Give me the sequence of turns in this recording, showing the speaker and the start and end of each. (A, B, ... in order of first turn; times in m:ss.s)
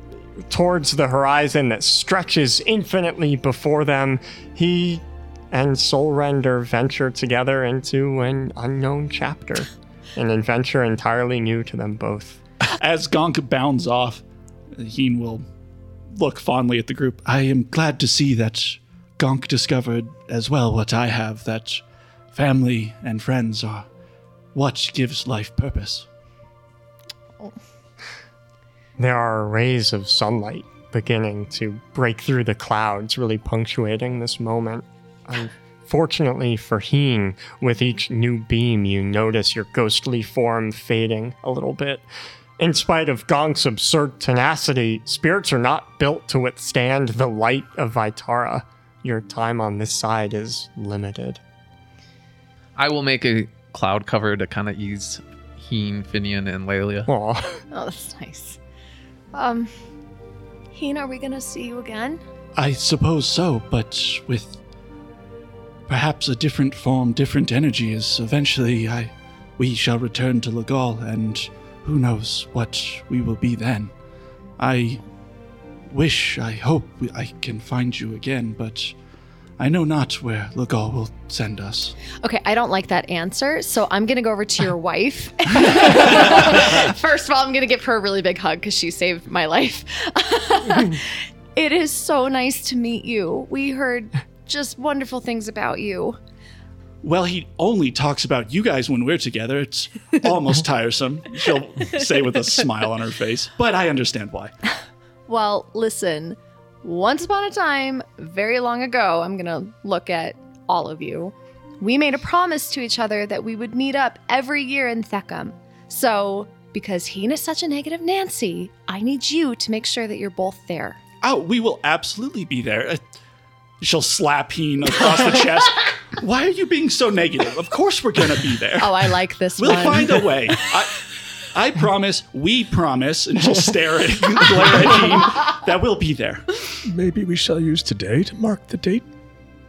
0:00.5-0:12.4 A
0:12.7-0:14.2 B
0:14.7-0:15.4 B
0:16.1-0:23.9 B
0:24.5-0:26.1 B
0:29.0-0:42.1 A
0:42.6-0:51.4 A
0:52.8-0:57.1 C
0:57.1-0:57.6 A
0:57.7-0:58.6 D
0:59.3-0:59.7 D
1:00.7-1:02.2 D
1:02.6-1:04.6 B
1:05.9-1:14.0 B
1:14.6-1:15.0 B
1:15.9-1:19.0 B
1:19.6-1:22.0 B
1:22.2-1:36.2 D
1:37.0-1:44.5 B
1:45.3-2:01.0 D
2:01.2-2:03.0 B
2:03.8-2:09.0 B
2:08.8-2:10.2 D
2:09.6-2:16.7 B
2:16.8-2:19.1 E